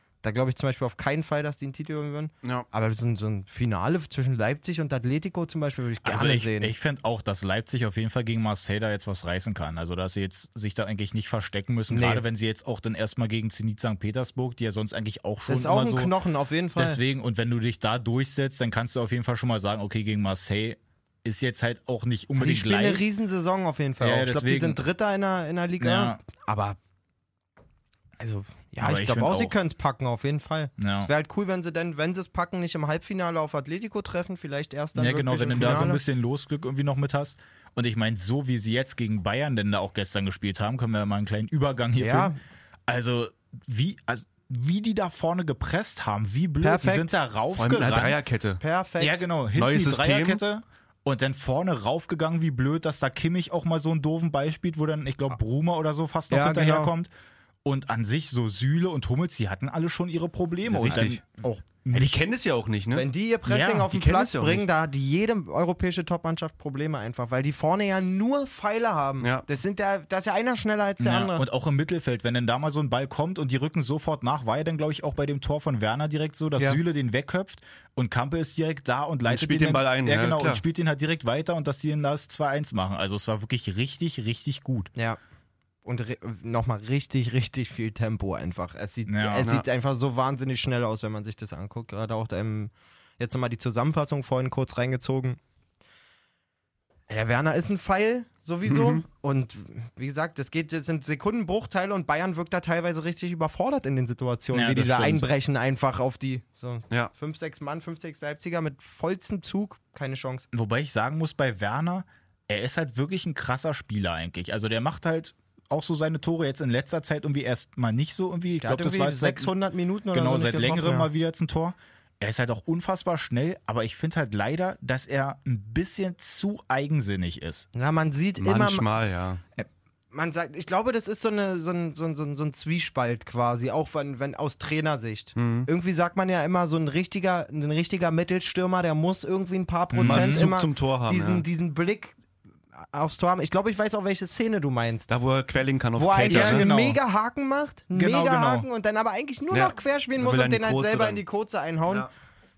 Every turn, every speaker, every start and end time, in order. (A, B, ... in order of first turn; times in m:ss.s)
0:00.2-0:06.7 A
0:06.0-0:16.1 B
0:11.9-0:12.2 A
0:15.5-0:17.0 A
0:16.7-0:23.1 B
0:22.4-0:26.8 A
0:24.0-0:24.8 B
0:25.8-0:26.2 B
0:28.2-0:36.0 A
0:28.8-0:29.5 B
0:30.8-0:31.1 B
0:34.9-0:42.3 B
0:42.0-0:42.4 A
0:42.9-0:48.2 B
0:46.6-0:47.1 A
0:47.5-0:48.6 C
0:48.6-0:49.2 A
0:49.0-0:57.1 B
0:49.5-0:50.4 C
0:56.3-0:56.9 A
0:57.6-1:02.2 B
1:00.7-1:01.3 C
1:01.9-1:03.1 C
1:02.9-1:11.4 A
1:03.5-1:03.9 B
1:03.9-1:04.6 C
1:11.0-1:24.9 B
1:19.2-1:20.6 C
1:25.8-1:35.4 A
1:29.1-1:29.5 B
1:37.1-1:50.4 A
1:38.7-1:39.0 C
1:44.5-1:45.3 B
1:50.5-1:59.5 B
1:58.6-2:01.1 A
2:00.1-2:07.7 B
2:07.7-2:08.8 A
2:08.4-2:09.4 C
2:09.6-2:22.2 A
2:15.4-2:15.7 C
2:19.9-2:20.4 B
2:20.0-2:21.4 C
2:22.7-2:25.1 A
2:25.1-2:26.7 C
2:25.9-2:32.1 A
2:26.3-2:27.0 B
2:27.9-2:28.6 B
2:29.5-2:31.2 C